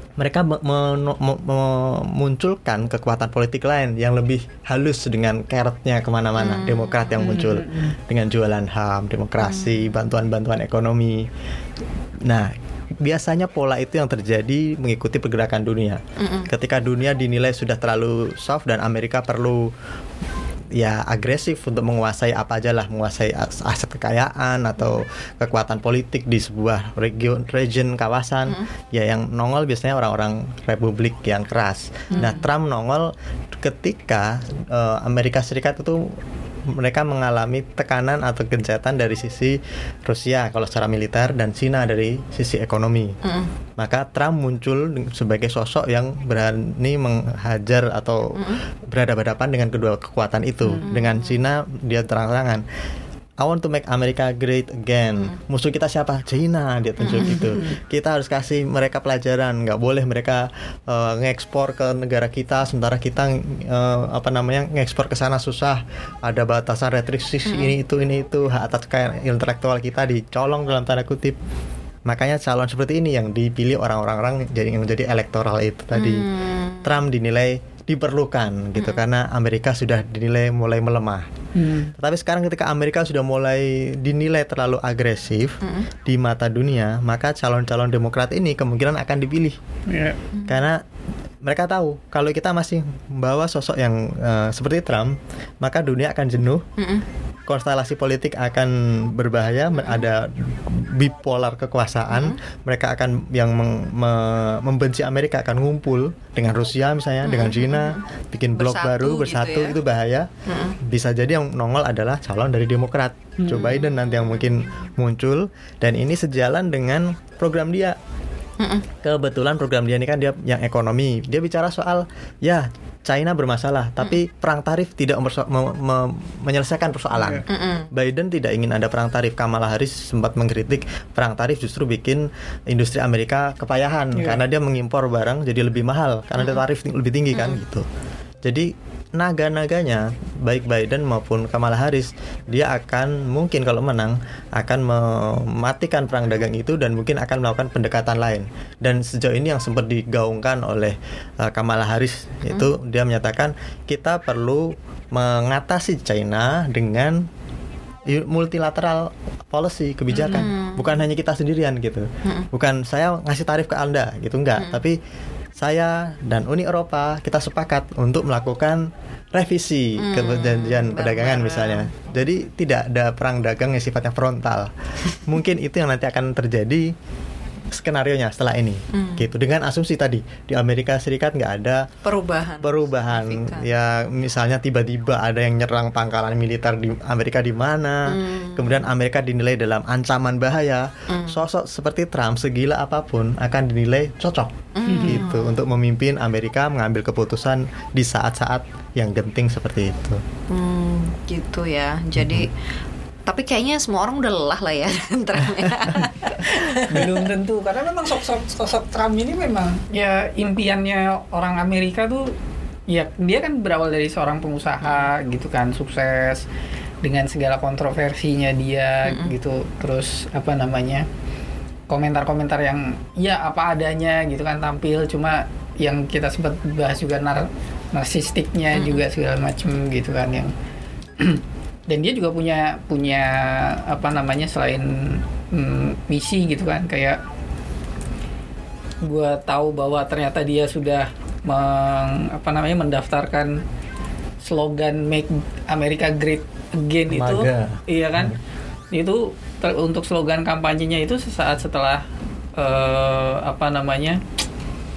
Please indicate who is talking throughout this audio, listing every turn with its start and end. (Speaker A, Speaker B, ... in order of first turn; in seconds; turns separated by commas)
Speaker A: 0.2-11.3, Speaker B: 6.4-7.3, Speaker C: 7.2-8.0, Speaker B: 9.4-9.9, Speaker A: 12.2-19.7, Speaker B: 16.2-16.5, Speaker A: 20.7-43.2, Speaker B: 32.1-32.4, Speaker B: 43.2-43.5, Speaker A: 43.8-52.6, Speaker B: 48.3-48.6, Speaker B: 50.8-51.4, Speaker A: 53.4-71.3, Speaker B: 57.0-57.6, Speaker C: 57.3-57.6, Speaker B: 67.5-67.7, Speaker A: 72.0-76.3, Speaker B: 75.9-76.9, Speaker A: 76.8-81.3, Speaker B: 78.8-79.0, Speaker C: 81.5-81.9, Speaker A: 82.0-89.6, Speaker C: 89.9-90.2, Speaker A: 90.5-90.8, Speaker A: 91.4-96.7, Speaker B: 96.8-97.0, Speaker A: 97.5-110.3, Speaker B: 99.8-100.0, Speaker B: 102.1-102.4, Speaker B: 107.2-108.0, Speaker B: 108.5-109.8, Speaker B: 110.5-110.8, Speaker A: 110.8-118.0, Speaker B: 113.6-114.7, Speaker B: 118.6-118.9, Speaker A: 119.0-137.8, Speaker C: 127.1-127.4, Speaker B: 127.5-127.9, Speaker C: 134.1-134.4, Speaker B: 137.3-137.6, Speaker A: 138.4-157.3, Speaker A: 158.1-165.0, Speaker B: 160.1-160.9, Speaker A: 165.6-174.7, Speaker B: 170.0-171.9, Speaker A: 175.2-176.9, Speaker A: 177.7-181.9, Speaker B: 178.9-179.3, Speaker B: 182.0-183.7, Speaker A: 182.6-200.2, Speaker B: 188.1-188.8, Speaker B: 191.1-191.4, Speaker B: 194.7-195.7, Speaker C: 194.8-195.2, Speaker B: 200.5-202.5, Speaker A: 202.2-202.5, Speaker B: 203.2-207.1, Speaker C: 206.7-212.3, Speaker C: 212.9-216.4, Speaker C: 217.0-221.1, Speaker C: 221.9-230.5, Speaker B: 228.7-229.0, Speaker C: 231.2-237.2, Speaker C: 239.0-243.6, Speaker C: 244.4-248.3, Speaker A: 247.1-248.3, Speaker C: 248.9-252.0, Speaker C: 252.6-254.2